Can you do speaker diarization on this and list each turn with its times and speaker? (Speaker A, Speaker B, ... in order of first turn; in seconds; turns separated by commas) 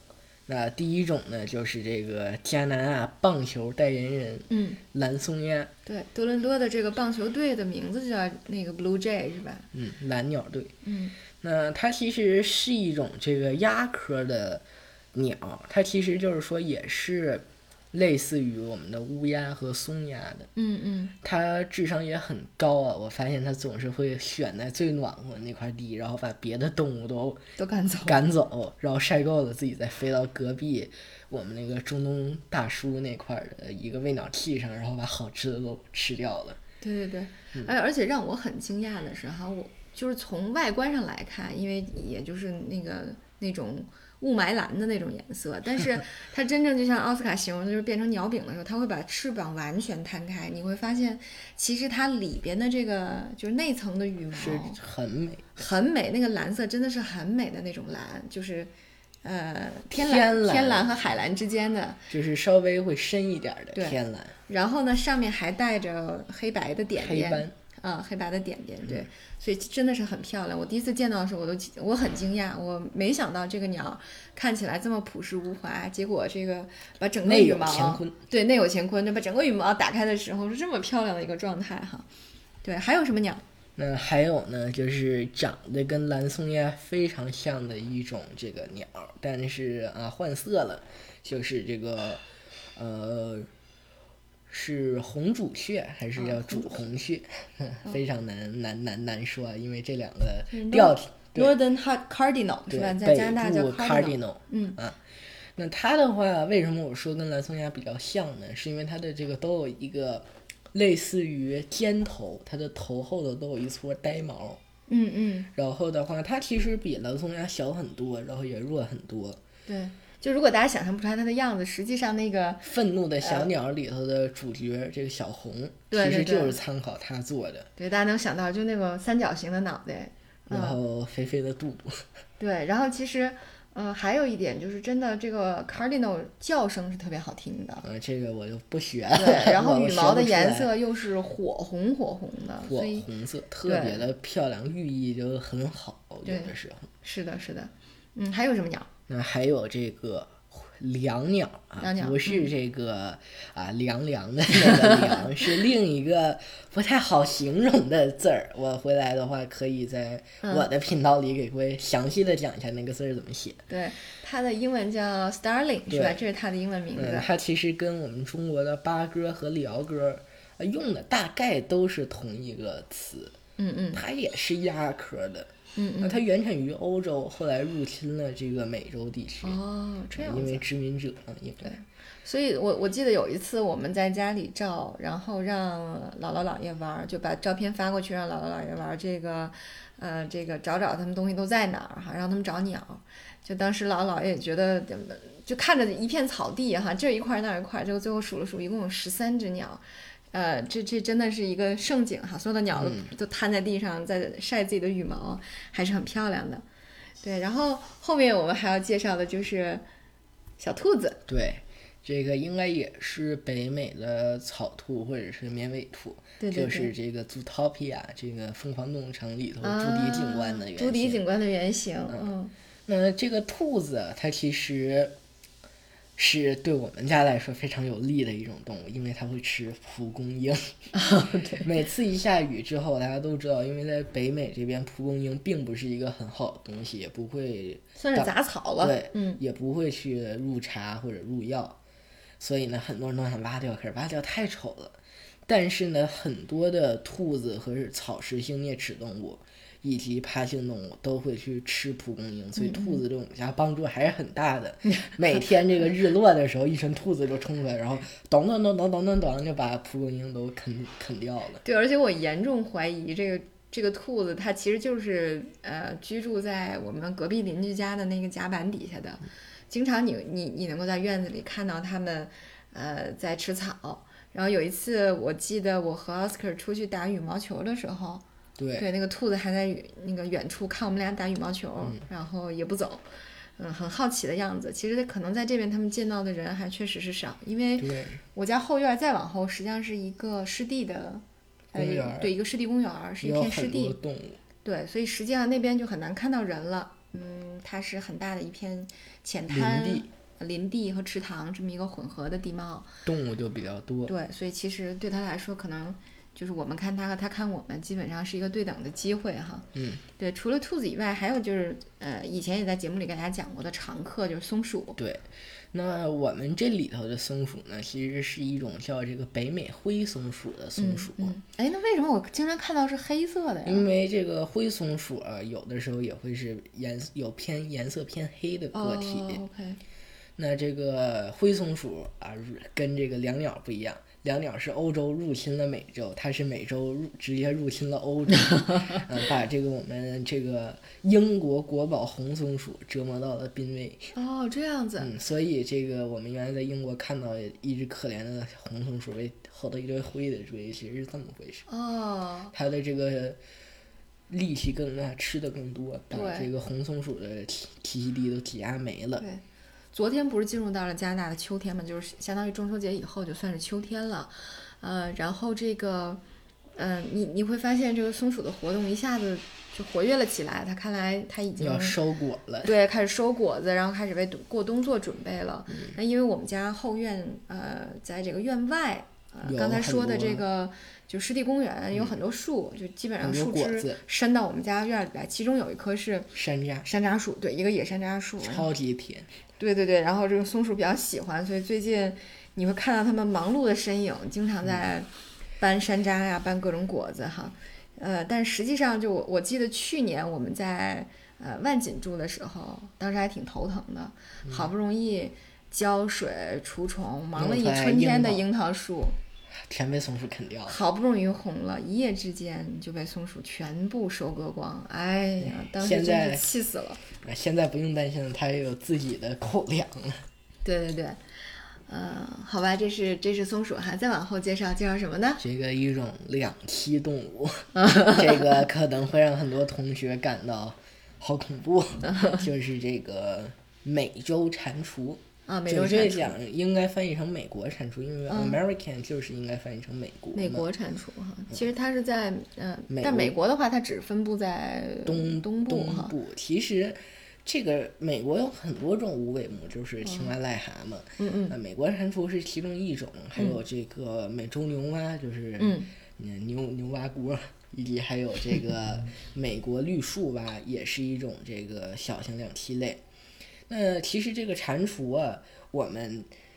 Speaker A: 0.5-5.7, Speaker B: 4.5-4.8, Speaker B: 5.8-9.7, Speaker A: 9.7-10.7, Speaker B: 10.8-11.1, Speaker A: 11.4-20.5, Speaker B: 20.6-21.1, Speaker A: 21.2-27.4, Speaker B: 27.6-28.2, Speaker A: 28.1-36.6, Speaker B: 36.8-54.8, Speaker A: 54.3-55.5, Speaker B: 55.5-58.7, Speaker B: 59.2-62.0, Speaker A: 59.9-61.0, Speaker A: 62.1-64.3, Speaker B: 63.7-82.1, Speaker A: 67.0-67.5, Speaker A: 77.2-78.1, Speaker B: 82.6-83.4, Speaker A: 83.8-92.2, Speaker A: 92.8-93.5, Speaker A: 94.5-101.5, Speaker B: 96.2-96.8, Speaker B: 100.5-104.8, Speaker A: 102.7-105.0, Speaker A: 105.5-114.6, Speaker B: 114.9-115.5, Speaker A: 115.5-119.4, Speaker B: 119.7-122.7, Speaker A: 122.6-127.7, Speaker B: 123.2-123.5, Speaker B: 125.9-126.6, Speaker B: 127.8-130.8, Speaker A: 130.5-132.0, Speaker B: 132.4-137.8, Speaker A: 137.8-140.7, Speaker B: 139.2-143.1, Speaker A: 142.6-146.9, Speaker B: 143.7-144.0, Speaker B: 146.2-148.9, Speaker A: 149.1-163.6, Speaker B: 151.8-152.5, Speaker B: 154.6-155.2, Speaker B: 160.4-160.7, Speaker B: 163.7-167.3, Speaker A: 165.9-166.2, Speaker A: 166.9-173.3, Speaker B: 173.6-174.0, Speaker A: 173.9-179.6, Speaker B: 175.8-176.2, Speaker B: 179.4-180.6, Speaker A: 180.2-181.8, Speaker B: 181.6-206.6, Speaker A: 202.7-203.1, Speaker B: 207.2-209.8, Speaker B: 210.6-211.2, Speaker A: 211.3-221.2, Speaker B: 216.4-216.9, Speaker B: 219.6-222.5, Speaker A: 222.9-225.1, Speaker A: 226.2-230.8, Speaker B: 230.9-231.7, Speaker A: 231.6-241.8, Speaker B: 238.0-239.4, Speaker A: 242.4-244.9, Speaker A: 245.5-261.6, Speaker B: 252.6-253.0, Speaker B: 261.6-278.2, Speaker A: 278.6-278.9, Speaker B: 278.8-283.0, Speaker B: 283.6-294.0, Speaker A: 287.8-288.2, Speaker A: 291.7-292.3, Speaker A: 293.2-294.4, Speaker B: 294.6-302.9, Speaker A: 299.5-300.1, Speaker A: 303.0-304.1, Speaker B: 304.1-315.0, Speaker A: 309.7-310.0, Speaker A: 315.0-321.3, Speaker B: 320.8-323.9, Speaker A: 323.6-329.4, Speaker B: 328.7-329.8, Speaker A: 330.4-344.1, Speaker B: 344.1-345.1, Speaker A: 345.0-351.6, Speaker B: 351.7-352.5, Speaker A: 352.5-353.4, Speaker A: 354.3-359.2, Speaker B: 356.1-356.5, Speaker B: 359.9-366.2, Speaker B: 366.8-372.0, Speaker A: 371.6-372.7, Speaker B: 372.6-386.3, Speaker A: 379.4-380.4, Speaker A: 383.2-384.0, Speaker A: 386.3-386.9, Speaker B: 386.8-388.7, Speaker A: 388.4-389.3, Speaker B: 389.6-395.1, Speaker B: 395.6-409.1, Speaker A: 407.3-408.4, Speaker A: 409.6-410.8, Speaker B: 410.6-417.0, Speaker A: 415.4-416.4, Speaker A: 417.2-420.2, Speaker B: 420.6-421.2, Speaker B: 421.9-425.4, Speaker A: 425.4-440.7, Speaker B: 427.8-428.2, Speaker B: 432.1-432.4, Speaker B: 435.4-436.4, Speaker B: 438.3-438.6, Speaker B: 440.3-446.1, Speaker A: 442.9-443.3, Speaker A: 445.1-463.0, Speaker B: 450.0-450.3, Speaker B: 451.2-451.6, Speaker B: 455.6-455.9, Speaker A: 463.7-466.3